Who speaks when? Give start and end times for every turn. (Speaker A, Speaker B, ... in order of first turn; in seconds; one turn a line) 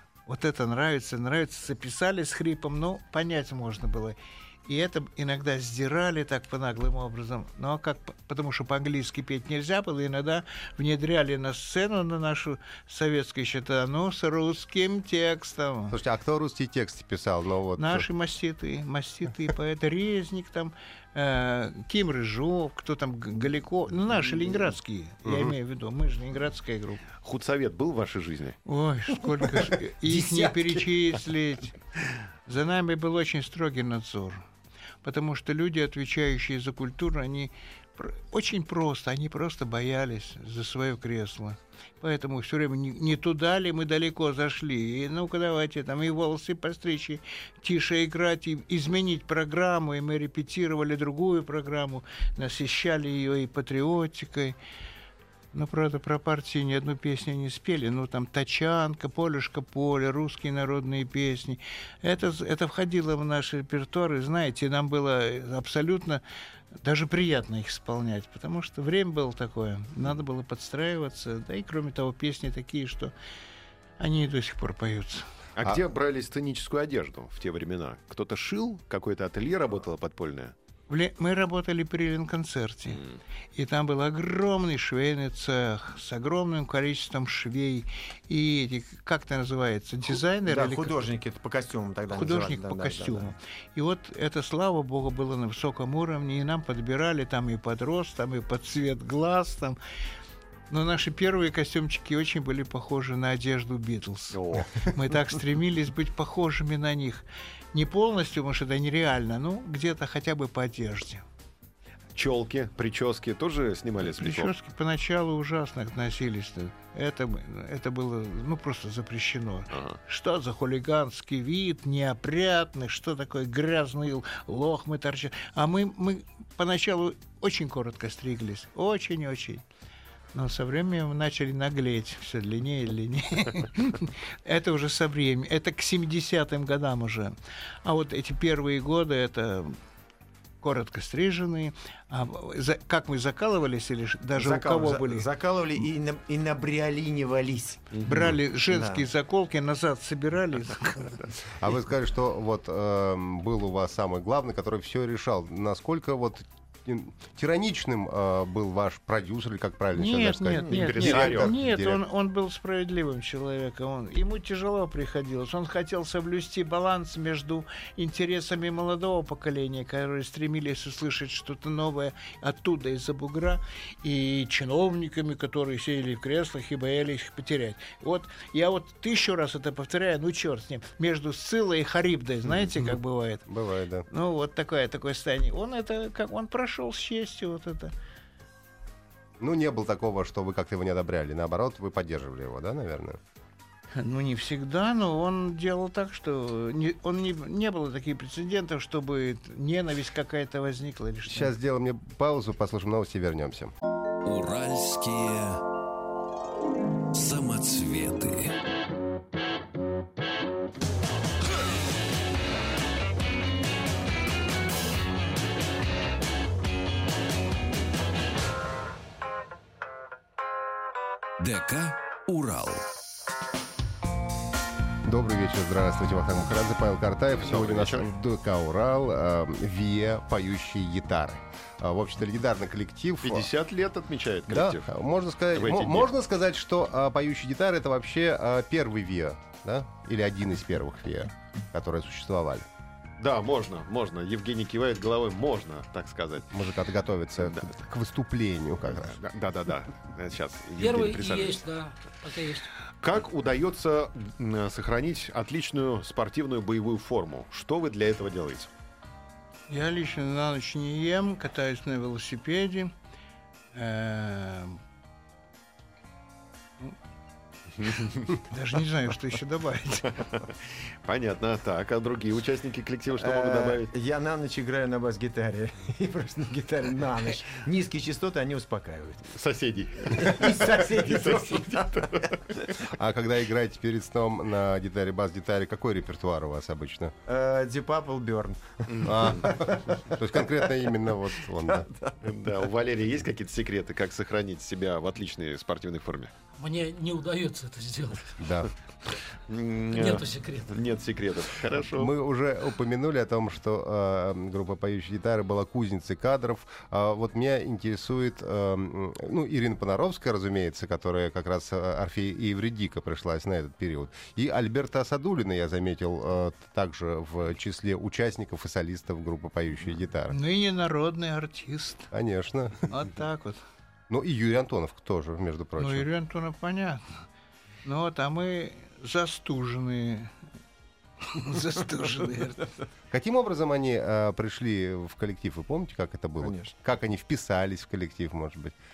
Speaker A: 0.3-15.9
Speaker B: 15.9-18.1
Speaker A: 17.8-27.1
Speaker B: 25.2-25.5
Speaker C: 27.2-28.6
Speaker A: 28.6-31.7
Speaker D: 29.6-30.9
Speaker A: 32.5-34.5
Speaker A: 35.0-54.5
Speaker A: 55.5-66.2
Speaker A: 66.8-73.1
Speaker A: 74.0-75.3
Speaker C: 75.5-80.5
Speaker A: 80.9-83.0
Speaker C: 82.9-83.2
Speaker A: 83.5-90.9
Speaker D: 90.1-93.3
Speaker A: 92.1-99.8
Speaker A: 100.7-111.2
Speaker C: 104.3-104.9
Speaker C: 112.1-114.5
Speaker A: 114.0-129.6
Speaker C: 119.7-120.0
Speaker A: 130.3-139.8
Speaker A: 140.6-145.3
Speaker D: 144.3-149.0
Speaker C: 147.9-148.3
Speaker A: 148.0-151.2
Speaker B: 151.5-162.0
Speaker A: 159.9-183.5
Speaker D: 160.6-161.1
Speaker C: 160.7-161.5
Speaker B: 183.5-184.1
Speaker A: 184.1-187.9
Speaker B: 189.4-193.2
Speaker A: 193.9-201.5
Speaker B: 201.3-203.7
Speaker E: 204.2-205.6
Speaker E: 207.1-208.5
Speaker E: 221.4-222.8
Speaker B: 225.1-233.5
Speaker C: 227.4-228.1
Speaker C: 233.2-234.9
Speaker B: 234.5-242.7
Speaker C: 235.5-236.1
Speaker C: 243.2-246.5
Speaker B: 246.5-249.2
Speaker C: 247.4-247.7
Speaker C: 248.9-251.6
Speaker F: 250.8-252.7
Speaker C: 253.0-258.7
Speaker A: 259.7-262.9
Speaker A: 263.7-264.8
Speaker C: 267.8-268.3
Speaker A: 268.4-270.2
Speaker C: 270.2-273.9
Speaker D: 273.2-279.3
Speaker C: 279.3-282.7
Speaker D: 280.1-282.6
Speaker B: 282.9-287.1
Speaker D: 287.3-291.0
Speaker C: 288.9-289.5
Speaker B: 289.0-291.9
Speaker D: 291.6-292.2
Speaker C: 292.2-296.3
Speaker F: 296.6-298.4
Speaker B: 298.4-298.7
Speaker C: 299.4-302.1
Speaker F: 299.9-300.7
Speaker B: 301.9-320.4
Speaker A: 320.3-322.1
Speaker B: 322.1-322.9
Speaker A: 322.9-323.6
Speaker B: 324.1-326.1
Speaker A: 325.8-327.0
Speaker A: 327.8-330.3
Speaker A: 331.2-332.7
Speaker B: 333.1-338.7
Speaker D: 336.4-336.7